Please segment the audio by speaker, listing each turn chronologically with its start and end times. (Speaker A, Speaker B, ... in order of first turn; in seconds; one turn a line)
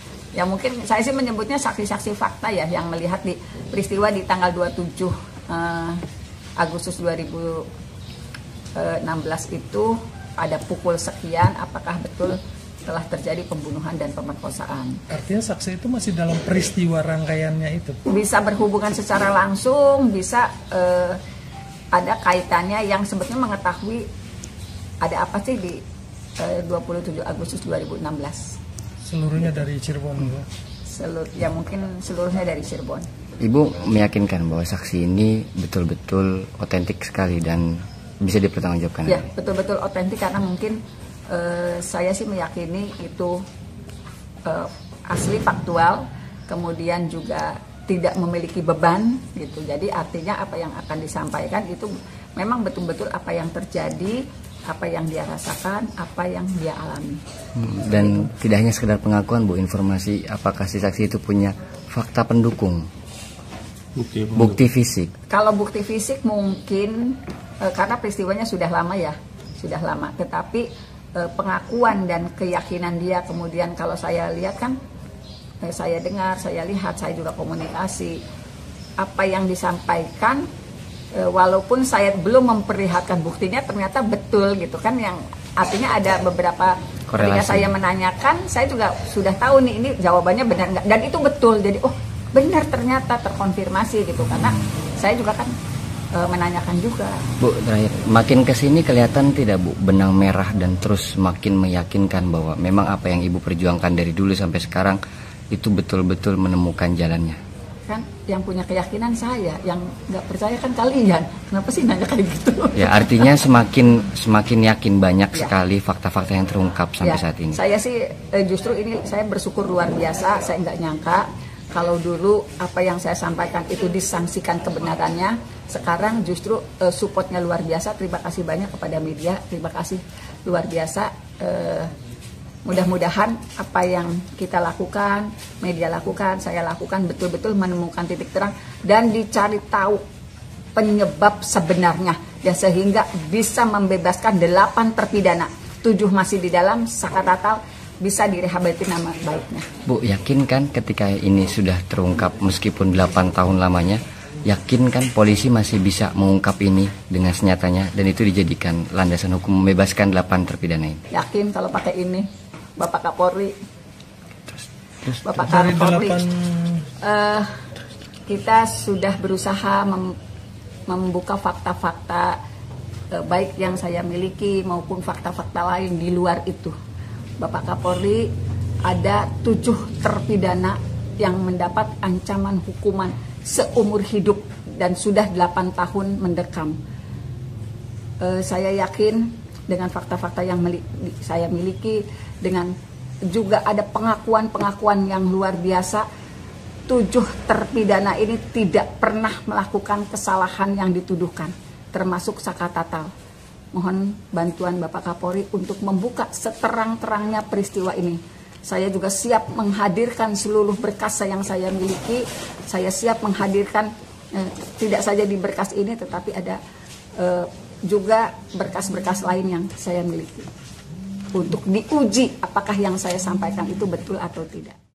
Speaker A: 0.3-6.0
Speaker A: 6.6-7.7
Speaker A: 8.7-15.0
Speaker B: 15.1-18.0
Speaker A: 18.1-21.2
Speaker A: 21.9-24.0
Speaker A: 25.0-25.8
Speaker A: 26.4-28.6
Speaker B: 29.0-30.5
Speaker A: 30.9-33.0
Speaker C: 33.4-39.3
Speaker A: 39.1-40.8
Speaker A: 41.3-43.4
Speaker A: 44.5-57.2
Speaker C: 57.5-62.9
Speaker B: 64.0-64.5
Speaker C: 64.3-65.1
Speaker A: 65.3-74.8
Speaker A: 75.6-78.2
Speaker A: 79.0-80.4
Speaker A: 81.1-95.5
Speaker C: 87.1-87.7
Speaker A: 96.1-97.3
Speaker C: 97.4-105.0
Speaker C: 105.5-107.4
Speaker A: 107.9-113.2
Speaker C: 112.8-117.6
Speaker A: 117.0-131.9
Speaker A: 132.6-140.0
Speaker A: 140.7-149.7
Speaker C: 149.8-161.0
Speaker A: 161.1-162.2
Speaker A: 162.8-163.5
Speaker C: 164.5-165.2
Speaker A: 165.2-166.2
Speaker B: 165.3-166.9
Speaker A: 167.0-167.5
Speaker A: 168.3-170.1
Speaker A: 170.9-172.4
Speaker A: 173.1-176.8
Speaker A: 177.4-178.3
Speaker A: 178.8-186.8
Speaker A: 188.2-192.7
Speaker A: 193.3-196.1
Speaker A: 196.9-203.1
Speaker A: 203.7-216.6
Speaker A: 217.2-220.5
Speaker A: 221.3-224.8